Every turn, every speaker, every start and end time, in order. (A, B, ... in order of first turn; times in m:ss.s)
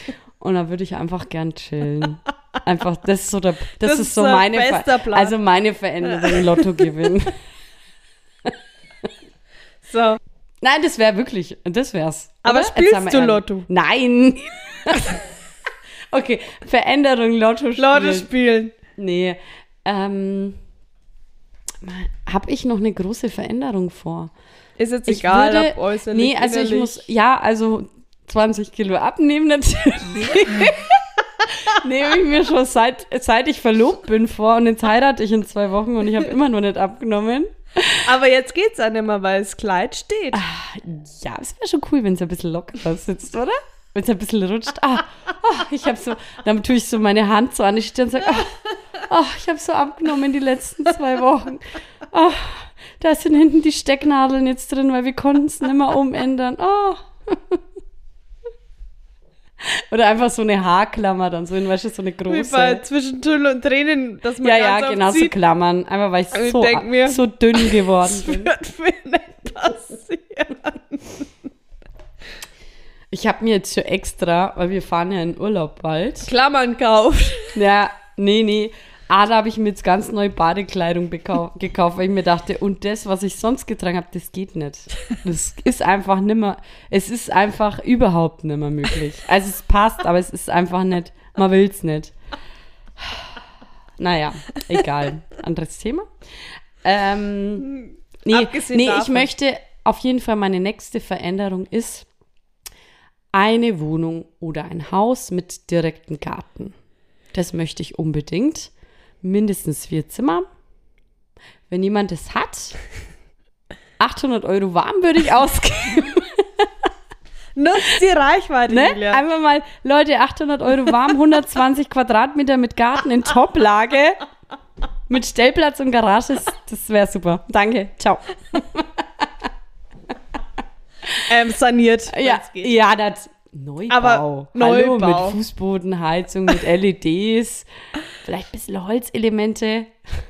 0:00.4-0:07.4 A
0:03.8-0:05.4 B
0:06.0-0:06.9 B
0:08.4-0:09.1 A
0:09.9-0:10.2 B
0:10.6-0:15.3 A
0:12.4-0:13.7 B
0:16.1-0:18.3 A
0:17.8-0:18.8 B
0:18.9-0:20.6 A
0:21.8-0:24.3 A
0:24.8-0:27.0 B
0:25.1-0:38.1 A
0:38.0-0:40.4 B
0:40.3-0:57.6 A
0:59.6-1:02.8 A
1:02.3-1:05.4 B
1:04.4-1:08.5 A
1:06.3-1:11.3 B
1:13.1-1:16.3 A
1:16.2-1:17.6 B
1:17.6-1:32.1 A
1:33.0-1:33.4 A
1:34.0-1:37.7 A
1:37.6-1:39.3 B
1:38.2-1:42.1 A
1:43.3-1:46.7 A
1:47.3-1:48.7 A
1:49.2-1:50.5 A
1:51.7-1:52.8 A
1:54.0-1:56.9 A
1:57.6-1:59.2 B
1:58.7-2:04.2 A
2:05.1-2:09.5 A
2:11.2-2:12.7 B
2:12.1-2:20.0 A
2:13.9-2:15.4 B